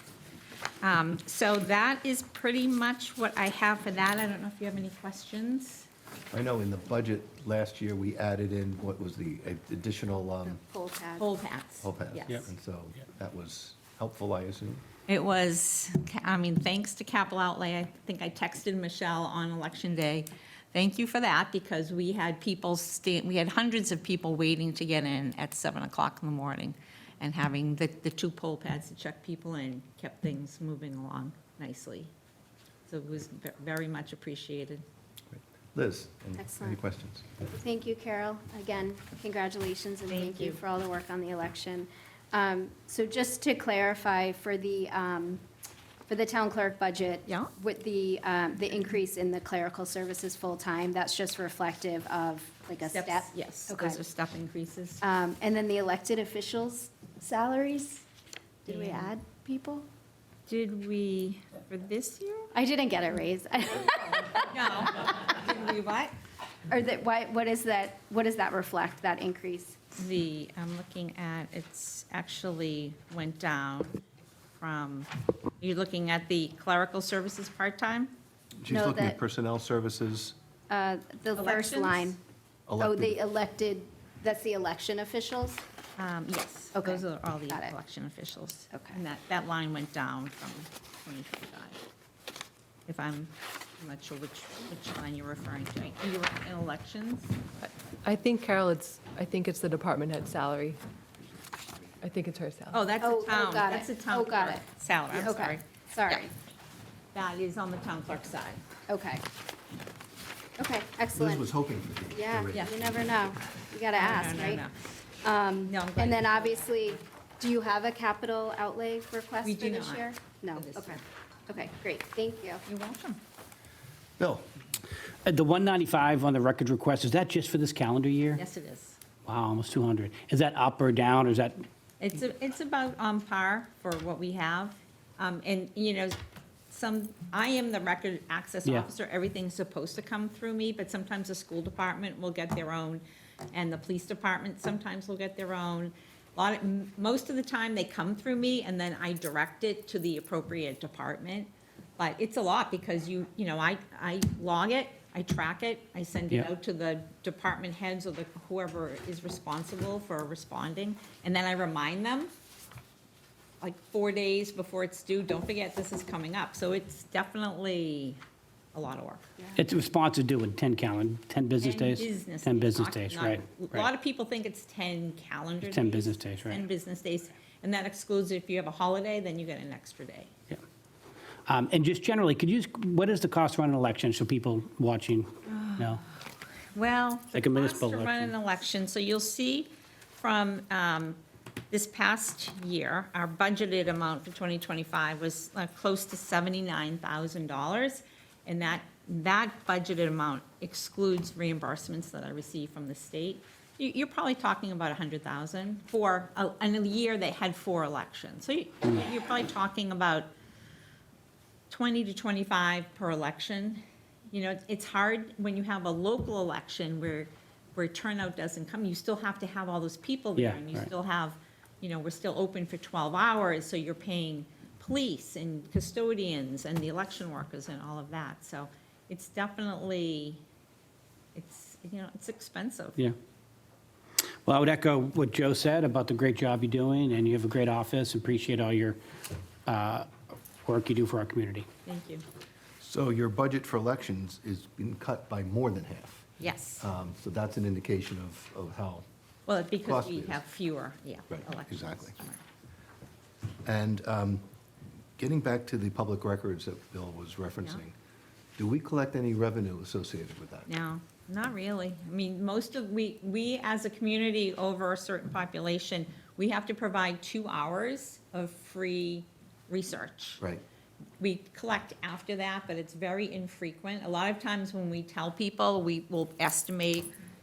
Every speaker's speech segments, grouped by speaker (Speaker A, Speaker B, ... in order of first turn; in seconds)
Speaker A: 0.8-5.9, 11.2-12.5, 15.1-32.1, 32.9-34.8, 40.1-40.6, 47.3-47.5, 52.8-55.0, 58.7-59.1, 60.5-62.5, 63.9-66.1, 70.0-74.0, 74.6-78.1, 81.4-82.2, 86.0-91.8, 92.9-97.4, 102.7-106.3, 107.1-108.6, 114.0-114.7, 115.7-117.0, 119.5-121.0, 122.7-123.2, 128.4-129.0, 132.0-136.2, 136.7-162.3, 163.6-168.2, 168.7-169.3, 171.6-180.3, 185.5-186.2, 186.7-191.2, 191.7-210.3, 211.7-230.4, 231.3-233.0, 241.9-242.2, 246.4-246.8, 249.5-252.4, 260.7-270.4, 271.2-277.1
Speaker B: 6.3-10.6, 11.8-14.8, 35.3-37.3, 78.6-80.4, 82.7-83.2, 111.2-113.1, 124.2-124.4, 242.8-249.1, 249.8-250.4, 251.3-252.2, 253.7-254.5, 255.2-258.0, 258.6-260.7
Speaker C: 10.5-11.3, 36.4-36.8, 37.4-45.4, 46.1-54.0, 55.0-58.1, 58.7-59.9, 62.5-64.4, 66.7-69.8, 78.7-79.2, 80.7-82.2, 82.8-85.6, 86.8-87.7, 88.7-89.0, 103.0-106.3, 108.9-109.2, 110.6-111.5, 112.1-114.6, 115.2-122.6
Speaker D: 97.6-100.8, 102.0-102.8
Speaker E: 125.2-128.4, 129.3-131.6, 169.6-173.9, 175.6-176.6, 181.5-186.0, 187.3-188.3, 220.4-220.9, 234.5-239.0, 239.7-240.1, 240.6-241.7